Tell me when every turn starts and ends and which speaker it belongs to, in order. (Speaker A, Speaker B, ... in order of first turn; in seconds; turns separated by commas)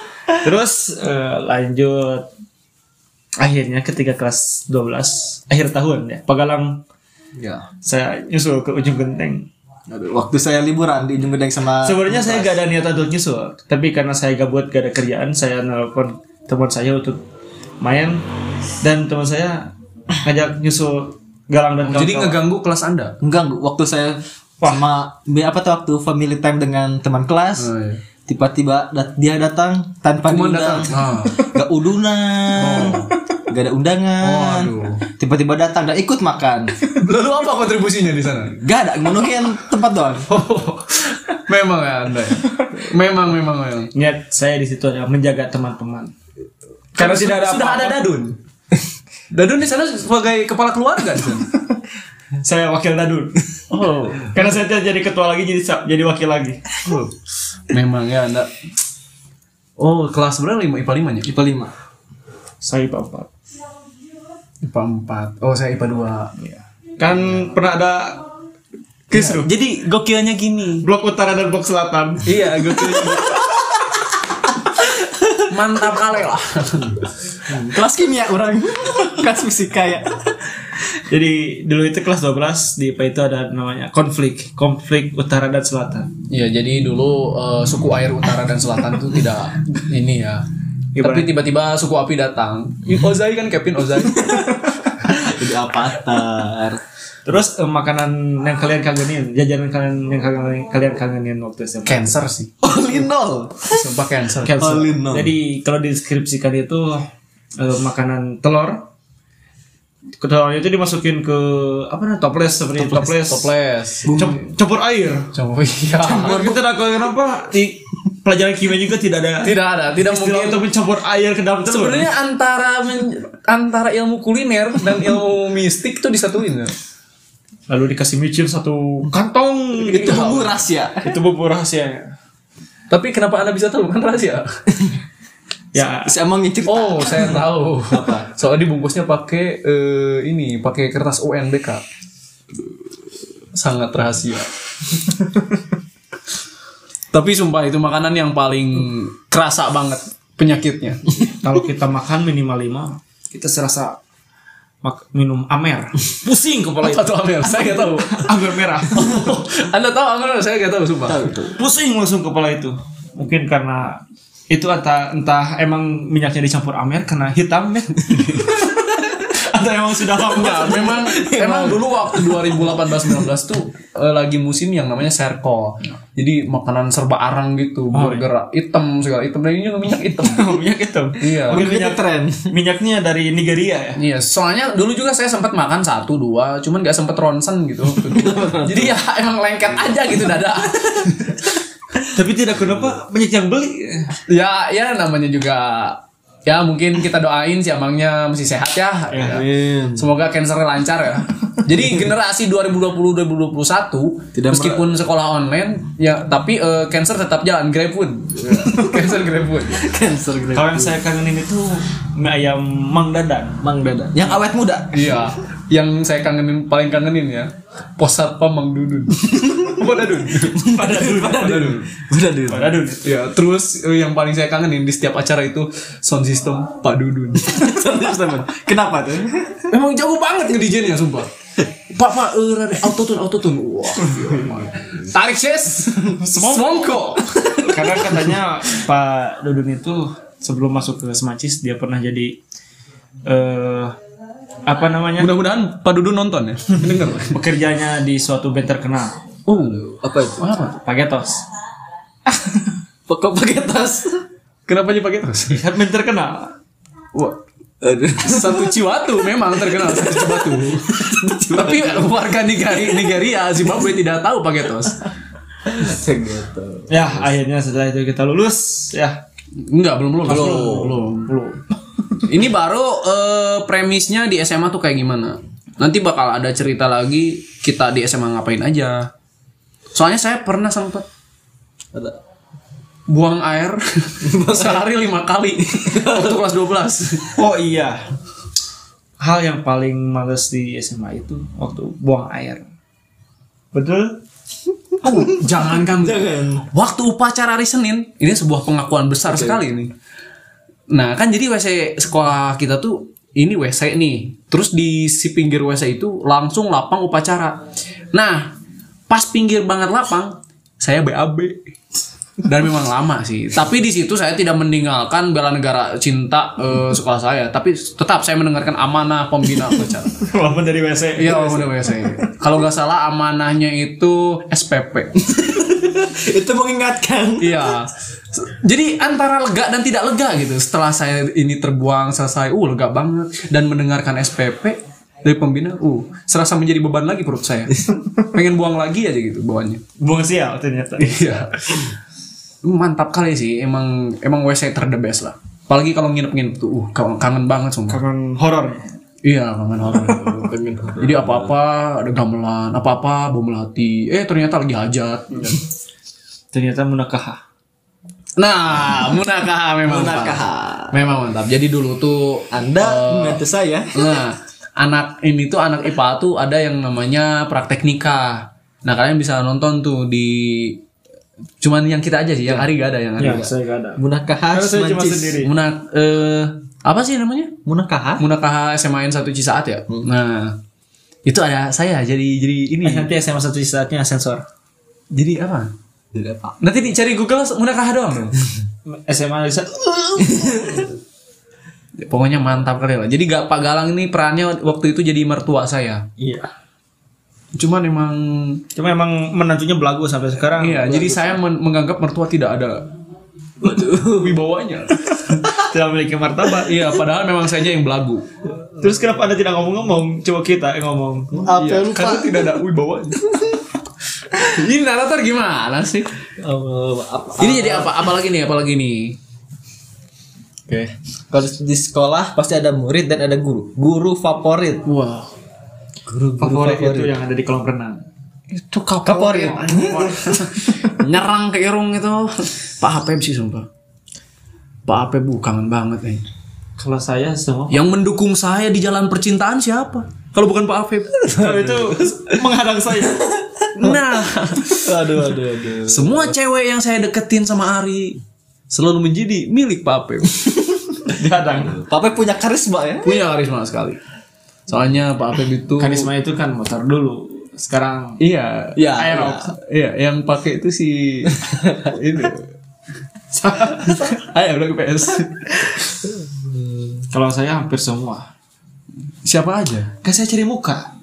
Speaker A: 0.4-2.3, Speaker A: 3.4-6.8, Speaker B: 7.4-7.7, Speaker A: 7.8-9.5, Speaker B: 9.9-12.6, Speaker A: 11.8-17.2, Speaker A: 17.8-18.3, Speaker A: 18.8-22.4, Speaker C: 21.8-23.2, Speaker B: 23.2-27.7, Speaker A: 24.6-24.9, Speaker C: 27.6-28.0, Speaker B: 28.3-36.8, Speaker C: 30.2-31.5, Speaker C: 32.5-33.1, Speaker C: 34.2-35.0, Speaker C: 36.9-38.6, Speaker B: 38.6-40.3, Speaker C: 40.3-43.9, Speaker A: 43.9-46.1, Speaker A: 46.9-48.0, Speaker C: 47.0-48.4, Speaker C: 49.3-51.5, Speaker A: 52.4-53.6, Speaker C: 53.7-54.5, Speaker A: 54.3-56.6, Speaker C: 56.8-57.1, Speaker C: 57.7-58.5, Speaker C: 59.8-61.3, Speaker B: 61.2-61.7, Speaker A: 62.6-63.3, Speaker C: 64.6-66.3, Speaker A: 66.4-68.2, Speaker A: 69.1-69.5, Speaker C: 69.1-70.8, Speaker A: 70.8-72.3, Speaker C: 72.2-73.6, Speaker C: 75.5-77.0, Speaker B: 77.5-80.5, Speaker A: 81.0-86.1, Speaker C: 86.3-90.4, Speaker A: 90.9-91.3, Speaker C: 91.0-94.9, Speaker B: 95.0-96.8, Speaker A: 97.2-102.2, Speaker C: 101.8-102.5, Speaker B: 102.6-103.9, Speaker C: 103.7-104.9, Speaker A: 104.4-108.9, Speaker B: 104.5-105.3, Speaker A: 110.2-113.5, Speaker C: 112.8-114.3, Speaker A: 114.0-115.3, Speaker C: 115.3-116.6, Speaker A: 116.0-122.1, Speaker C: 119.4-120.6, Speaker C: 121.7-126.7, Speaker A: 127.7-130.5, Speaker B: 129.8-131.1, Speaker C: 130.0-130.5, Speaker A: 131.0-132.1, Speaker C: 132.9-134.5, Speaker A: 135.7-136.1, Speaker B: 136.0-138.3, Speaker C: 136.6-141.8, Speaker C: 143.5-144.5, Speaker C: 147.1-151.1, Speaker A: 151.4-154.0, Speaker A: 154.8-157.1, Speaker C: 156.8-158.3, Speaker A: 157.6-159.3, Speaker C: 158.9-161.2, Speaker B: 161.0-161.6, Speaker A: 161.6-171.1, Speaker C: 170.2-180.6, Speaker B: 171.0-172.5, Speaker A: 177.9-178.3, Speaker A: 180.2-184.0, Speaker C: 181.2-181.7, Speaker B: 181.5-182.5, Speaker C: 184.0-191.5, Speaker B: 187.9-189.0, Speaker A: 192.1-194.1, Speaker C: 194.3-209.9, Speaker A: 199.1-199.4, Speaker B: 199.2-200.1, Speaker B: 204.3-204.9, Speaker B: 208.4-209.1, Speaker B: 209.7-211.0, Speaker A: 210.5-213.6, Speaker B: 213.6-215.3, Speaker C: 214.9-220.7, Speaker B: 220.4-222.8, Speaker A: 220.6-221.8, Speaker C: 221.2-221.9, Speaker A: 222.5-223.2, Speaker C: 223.0-227.6, Speaker B: 227.4-229.7, Speaker C: 229.7-231.3, Speaker C: 231.9-237.6, Speaker A: 236.2-236.9, Speaker B: 237.1-238.0, Speaker A: 237.6-242.4, Speaker A: 243.2-244.0, Speaker A: 244.7-245.3, Speaker C: 245.2-247.4, Speaker A: 247.2-249.2, Speaker C: 249.5-250.8, Speaker B: 249.6-250.4, Speaker A: 250.8-251.4, Speaker B: 253.1-254.2, Speaker C: 254.7-255.6, Speaker A: 255.5-256.5, Speaker C: 257.1-257.4, Speaker B: 257.8-258.8, Speaker C: 258.2-265.1, Speaker B: 259.8-262.1, Speaker B: 265.6-267.3, Speaker A: 266.9-269.2, Speaker C: 269.6-271.3, Speaker A: 270.2-271.6, Speaker B: 270.3-271.0, Speaker C: 272.2-279.1, Speaker C: 279.9-281.1, Speaker C: 283.1-287.4, Speaker B: 284.2-284.9, Speaker B: 285.9-286.4, Speaker A: 287.3-288.1, Speaker A: 289.2-292.6, Speaker A: 293.7-294.2, Speaker C: 295.0-299.9, Speaker B: 295.2-296.7, Speaker B: 299.3-299.6, Speaker C: 300.9-307.6, Speaker C: 308.1-308.5, Speaker C: 309.1-311.6, Speaker C: 312.4-320.3, Speaker A: 320.2-322.1, Speaker C: 321.2-325.2, Speaker B: 325.2-327.8, Speaker C: 327.4-339.8, Speaker A: 340.0-341.5, Speaker C: 341.0-341.9, Speaker C: 342.6-348.0, Speaker A: 347.9-348.9, Speaker C: 349.2-355.6, Speaker B: 350.3-351.3, Speaker A: 356.5-357.4, Speaker C: 358.4-363.4, Speaker B: 359.9-361.1, Speaker B: 362.5-364.2, Speaker C: 363.9-370.8, Speaker C: 371.6-373.5, Speaker B: 372.4-375.4, Speaker A: 373.2-375.5, Speaker C: 375.4-377.6, Speaker B: 377.6-378.2, Speaker C: 378.2-380.6, Speaker C: 381.2-383.1, Speaker A: 382.8-384.4, Speaker C: 385.1-385.7, Speaker B: 386.1-386.6, Speaker C: 386.6-388.4, Speaker A: 388.9-390.7, Speaker B: 390.2-390.9, Speaker C: 392.0-396.0, Speaker A: 396.2-396.5, Speaker C: 397.5-398.6, Speaker A: 398.8-401.3, Speaker C: 400.6-402.9, Speaker B: 403.6-404.4, Speaker C: 403.7-405.5, Speaker A: 405.5-406.8, Speaker C: 406.6-408.3, Speaker A: 408.8-411.4, Speaker B: 411.3-412.5, Speaker C: 411.5-413.2, Speaker C: 414.3-416.1, Speaker B: 416.4-418.1, Speaker C: 417.4-419.2, Speaker B: 420.7-424.9, Speaker C: 424.8-425.3, Speaker B: 426.1-427.2, Speaker A: 426.4-428.0, Speaker C: 428.5-433.7, Speaker B: 429.1-430.8, Speaker A: 429.8-430.2, Speaker C: 434.9-436.2, Speaker A: 436.8-437.9, Speaker C: 437.7-441.2, Speaker B: 441.3-442.3, Speaker A: 441.3-443.4, Speaker C: 443.8-450.5, Speaker B: 444.6-446.3, Speaker A: 451.1-451.8, Speaker B: 451.6-453.2, Speaker C: 453.0-454.0, Speaker C: 454.7-456.1, Speaker A: 455.8-458.2, Speaker C: 458.2-462.5, Speaker B: 458.8-459.4, Speaker A: 458.9-459.5, Speaker B: 461.7-461.9, Speaker A: 463.3-464.1, Speaker C: 463.9-465.8, Speaker B: 466.0-467.0, Speaker A: 467.1-468.3, Speaker C: 469.2-469.9, Speaker A: 470.0-470.9